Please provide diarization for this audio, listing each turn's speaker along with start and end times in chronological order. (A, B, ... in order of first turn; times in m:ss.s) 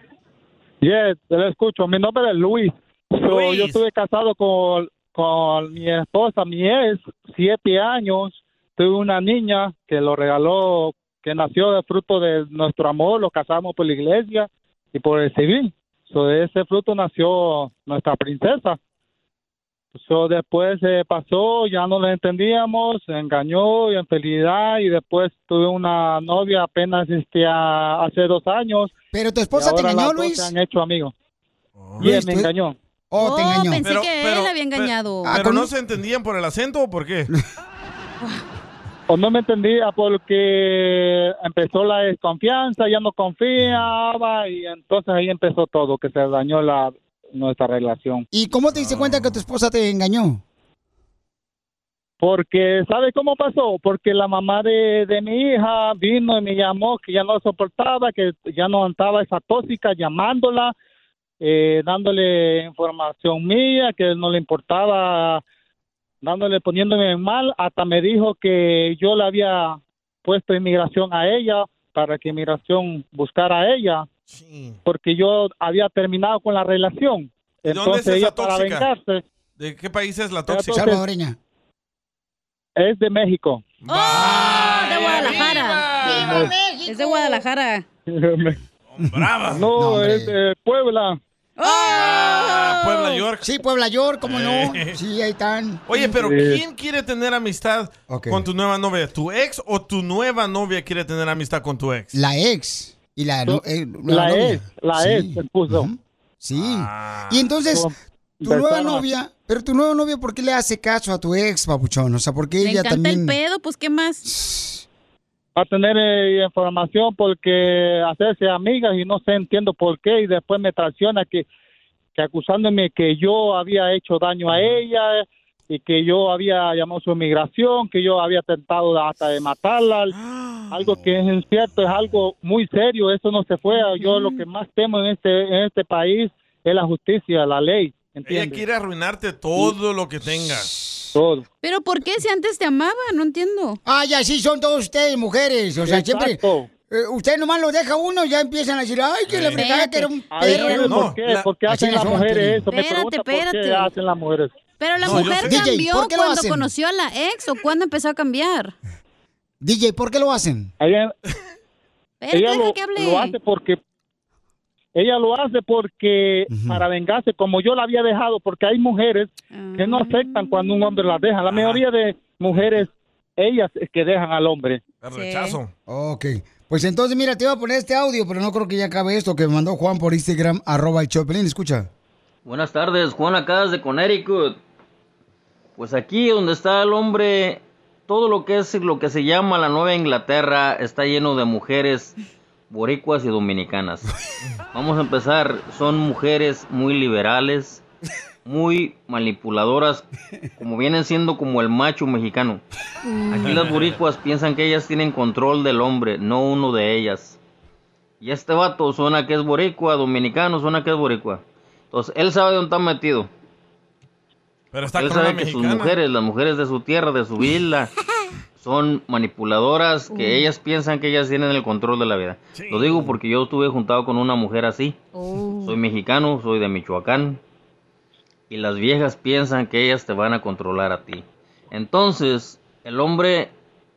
0:00.8-0:18.8 A
0:03.2-0:03.8 B
0:19.9-0:28.9 A
0:29.1-0:30.5 C
0:29.5-0:31.1 A
0:31.8-0:32.0 B
0:32.0-0:32.8 A
0:32.0-0:32.5 C
0:33.1-0:33.8 C
0:33.2-0:35.5 D
0:33.8-0:37.3 B
0:35.2-0:35.7 C
0:39.1-0:48.2 A
0:48.3-0:50.4 C
0:48.7-0:49.4 B
0:52.2-1:00.7 A
1:01.4-1:05.4 A
1:06.2-1:14.1 A
1:14.3-1:14.8 B
1:14.8-1:19.2 A
1:17.7-1:18.9 B
1:19.6-1:20.9 B
1:20.5-1:21.0 A
1:20.7-1:21.4 C
1:22.8-1:23.6 A
1:23.8-1:26.5 B
1:23.9-1:25.9 D
1:24.1-1:27.4 C
1:26.2-1:26.5 A
1:26.8-1:27.8 D
1:28.1-1:28.6 A
1:28.9-1:29.7 B
1:29.0-1:30.4 C
1:29.5-1:31.2 A
1:31.6-1:33.2 D
1:31.8-1:33.5 B
1:33.4-1:35.8 C
1:34.2-1:35.0 B
1:35.9-1:42.1 B
1:36.0-1:36.6 A
1:38.1-1:38.4 C
1:42.1-1:53.4 C
1:43.5-1:45.9 A
1:46.5-1:47.5 B
1:48.4-1:49.1 A
1:52.6-1:54.2 D
1:54.2-1:54.8 C
1:55.6-2:01.4 A
2:02.1-2:10.1 A
2:10.1-2:10.7 B
2:10.7-2:18.6 A
2:14.0-2:14.4 D
2:18.2-2:20.7 B
2:21.1-2:21.4 A
2:21.6-2:23.8 D
2:23.8-2:31.1 C
2:25.8-2:26.7 A
2:29.3-2:29.6 B
2:29.6-2:31.0 D
2:30.3-2:34.5 A
2:30.7-2:31.4 B
2:31.7-2:32.6 C
2:32.7-2:33.9 D
2:34.8-2:38.7 D
2:35.0-2:35.6 B
2:35.1-2:36.7 C
2:39.6-2:40.7 C
2:40.8-2:41.1 A
2:42.2-2:43.4 D
2:42.3-2:43.8 A
2:44.9-2:54.8 A
2:46.5-2:46.8 C
2:49.5-2:51.3 D
2:51.5-2:51.8 B
2:52.5-2:52.8 B
2:55.0-2:55.7 B
2:55.1-2:55.6 D
2:55.9-3:01.9 C
3:02.4-3:04.6 E
3:05.8-3:12.1 E
3:12.7-3:14.0 E
3:14.7-3:17.8 E
3:18.4-3:20.0 E
3:20.6-3:22.6 E
3:23.3-3:27.4 E
3:23.4-3:24.0 B
3:28.2-3:31.4 E
3:31.9-3:33.3 E
3:34.7-3:36.0 B
3:35.0-3:37.9 E
3:38.6-3:44.9 E
3:40.1-3:40.5 D
3:42.5-3:43.2 B
3:45.1-3:45.8 D
3:45.6-3:47.4 E
3:48.5-3:53.5 E